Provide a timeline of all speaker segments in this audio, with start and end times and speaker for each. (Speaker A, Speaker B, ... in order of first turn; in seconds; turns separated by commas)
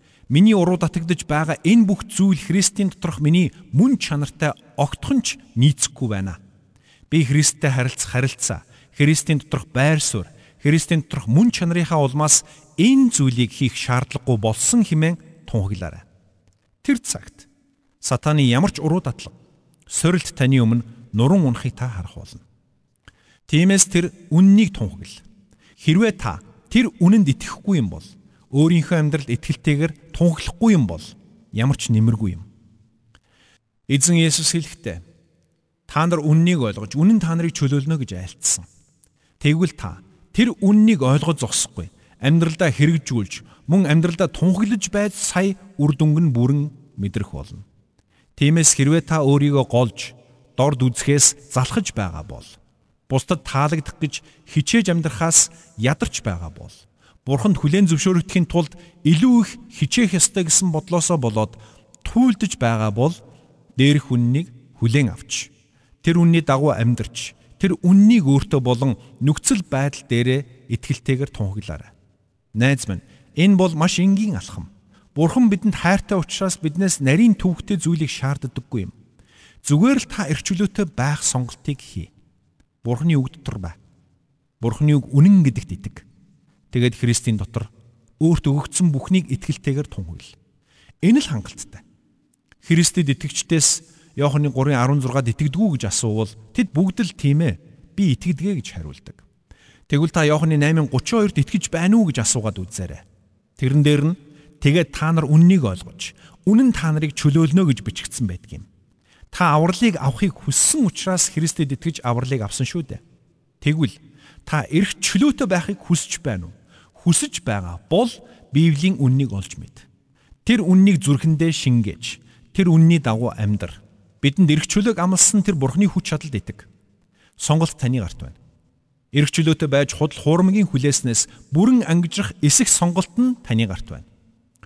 Speaker A: 0.3-6.4, Speaker A: 7.1-16.0, Speaker A: 16.8-17.5, Speaker A: 18.0-19.3, Speaker A: 19.9-22.4, Speaker A: 23.5-25.2, Speaker A: 25.8-32.5, Speaker A: 33.9-35.0, Speaker A: 35.9-38.7, Speaker A: 39.4-47.6, Speaker A: 48.4-52.6, Speaker A: 53.1-63.2, Speaker A: 63.8-65.5, Speaker A: 66.0-71.9, Speaker A: 72.5-78.9, Speaker A: 79.6-82.1, Speaker A: 82.8-83.8, Speaker A: 84.6-86.0, Speaker A: 86.7-90.3, Speaker A: 91.0-91.8, Speaker A: 92.6-99.2, Speaker A: 99.9-103.0, Speaker A: 103.6-108.7, Speaker A: 109.3-113.0, Speaker A: 113.6-119.9, Speaker A: 120.4-126.7, Speaker A: 127.4-128.4, Speaker A: 129.1-134.1